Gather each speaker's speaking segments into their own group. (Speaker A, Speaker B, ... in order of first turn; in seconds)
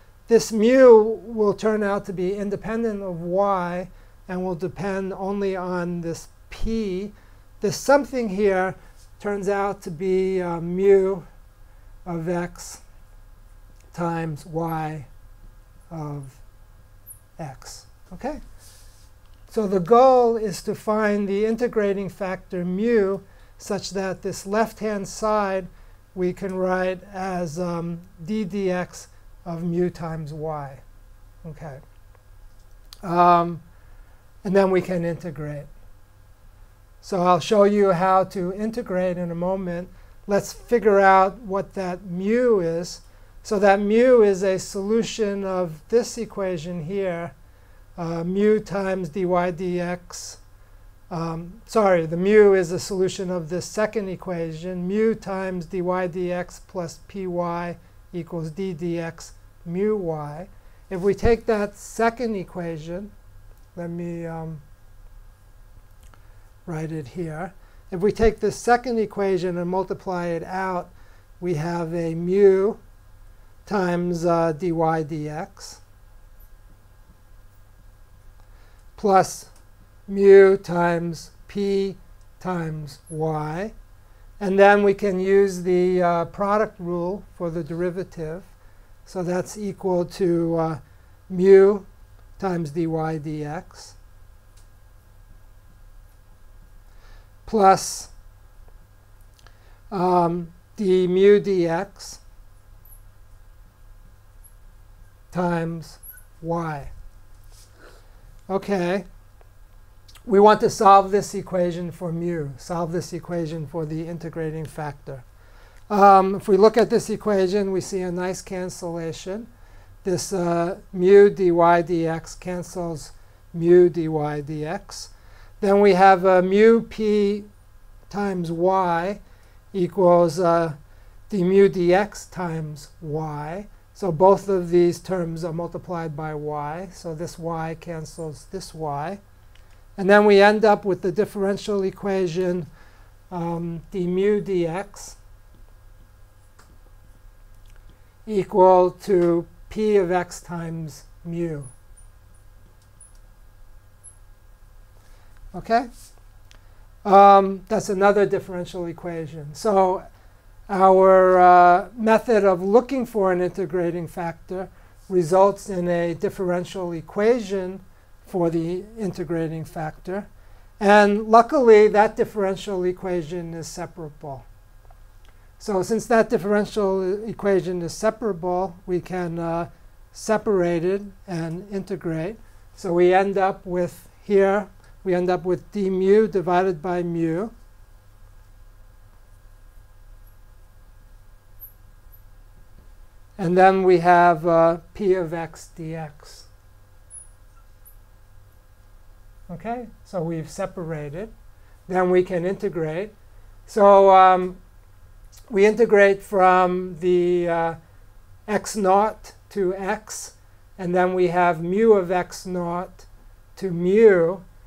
Speaker A: 0.3-11.2, 12.1-12.8, 13.9-15.1, 15.9-16.4, 17.4-18.4, 19.5-30.8, 31.4-31.8, 33.0-33.6, 34.4-35.7, 37.0-47.3, 48.0-50.4, 51.1-63.1, 63.7-64.6, 66.7-72.8, 73.7-75.8, 79.0-79.5, 80.1-83.7, 84.4-88.5, 89.0-91.8, 92.4-94.0, 97.5-98.1, 99.9-102.2, 105.3-106.9, 108.5-109.0, 110.2-115.2, 115.9-119.5, 120.0-127.5, 128.1-129.2, 129.7-130.8, 131.3-139.2, 140.0-142.7, 143.3-145.2, 148.2-151.7, 155.5-155.9, 157.0-160.1, 160.7-170.3, 170.8-174.4, 175.6-187.5, 193.4-196.5, 199.5-201.3, 201.9-203.1, 203.7-204.6, 205.5-207.8, 208.5-214.4